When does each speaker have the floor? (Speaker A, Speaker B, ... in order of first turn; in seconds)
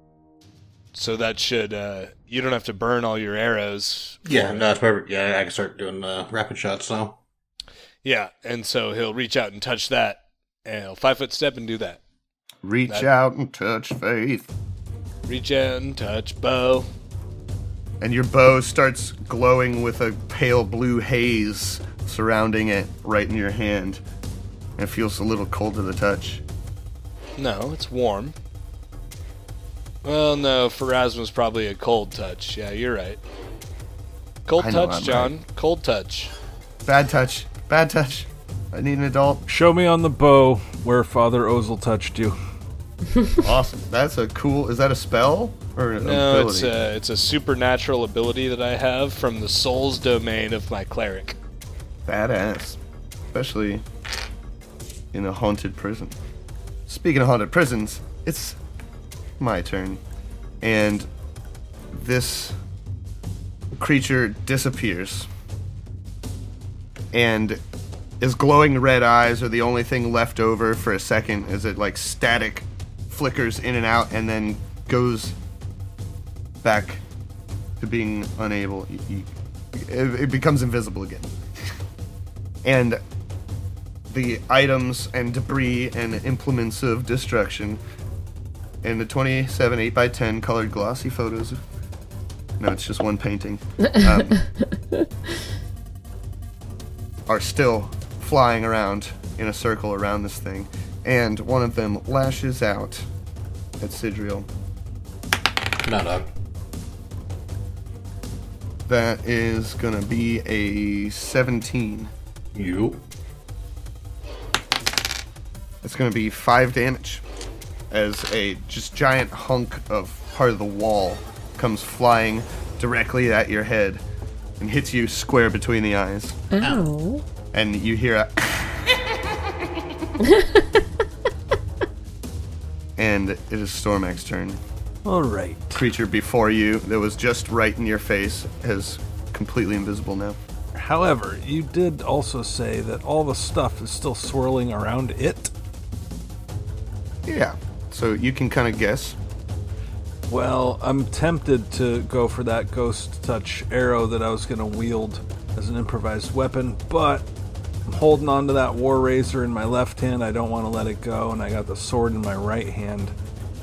Speaker A: 0.9-4.7, 8.0-12.0, 15.3-16.9, 27.4-28.3, 30.0-33.2, 34.5-36.3, 46.0-51.4
Speaker B: 4.2-7.2, 105.8-106.3, 112.5-113.0
Speaker C: 12.6-14.5, 18.0-24.0, 24.8-26.4, 34.6-35.3, 36.8-39.4, 43.4-46.7, 52.0-52.8, 53.3-53.8, 55.1-56.2, 56.9-58.6, 59.4-60.0, 60.6-61.1, 61.9-62.6, 63.8-65.3, 67.1-67.6, 68.2-75.3, 76.6-77.0, 77.8-81.3, 82.6-83.0, 84.1-87.8, 88.8-91.6, 92.6-94.4, 97.3-103.1, 103.8-104.5, 108.9-112.1, 115.8-117.2, 117.9-124.0, 124.6-126.4, 127.5-128.8, 133.0-134.6, 135.7-140.4, 147.2-149.2
Speaker D: 39.5-42.4, 135.0-135.8, 140.7-145.5, 150.3-157.3, 157.9-163.1
Speaker E: 93.8-95.1, 126.5-127.2, 130.2-130.7